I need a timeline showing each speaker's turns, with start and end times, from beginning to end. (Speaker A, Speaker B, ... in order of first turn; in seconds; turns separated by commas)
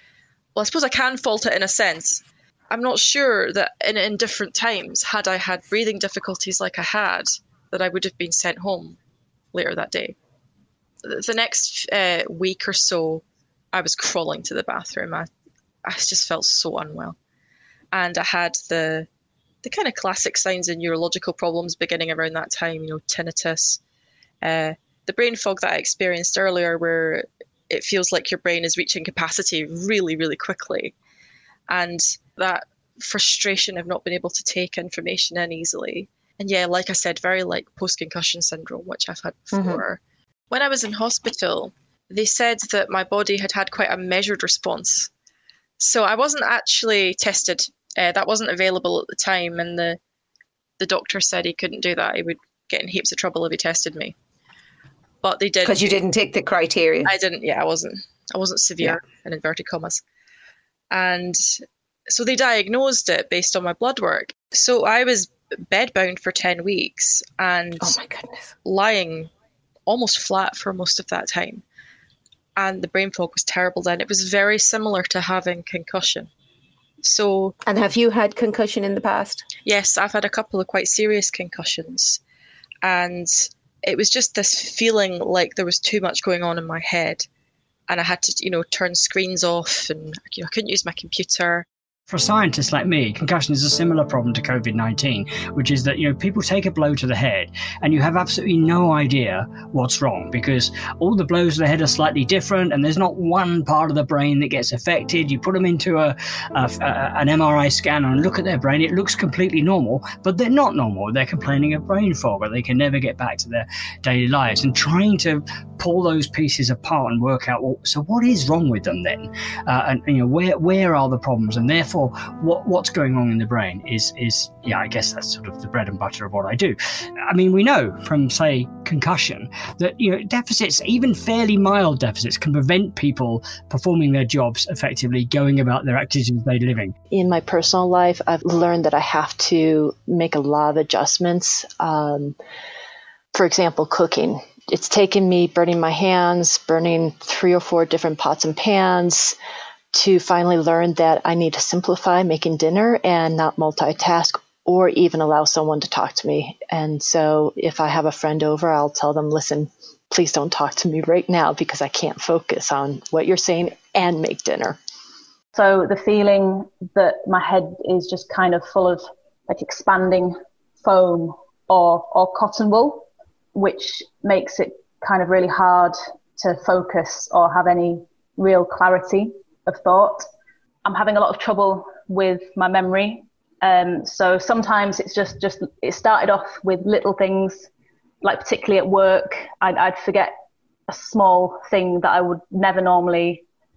Speaker A: 0.5-9.0, Speaker A: 9.5-10.2, Speaker A: 11.0-15.3, Speaker A: 15.8-17.2, Speaker A: 17.9-19.1, Speaker A: 19.6-23.8, Speaker A: 24.4-30.9, Speaker A: 31.7-45.1, Speaker B: 39.5-39.8, Speaker A: 45.8-50.0, Speaker A: 50.8-54.1, Speaker A: 55.2-56.0, Speaker B: 55.6-57.1, Speaker A: 57.0-60.0, Speaker A: 60.9-68.0, Speaker B: 67.8-68.5, Speaker A: 68.6-69.3, Speaker A: 69.9-71.6, Speaker A: 72.5-76.3, Speaker A: 77.0-77.5, Speaker B: 77.6-79.4, Speaker A: 79.6-82.2, Speaker A: 82.8-87.3, Speaker A: 87.9-91.7, Speaker C: 92.1-126.8, Speaker C: 127.3-136.9, Speaker D: 137.1-142.3, Speaker D: 143.3-149.3, Speaker D: 149.9-164.8, Speaker E: 165.5-180.2, Speaker E: 180.8-187.7, Speaker E: 188.2-190.3, Speaker E: 190.9-193.4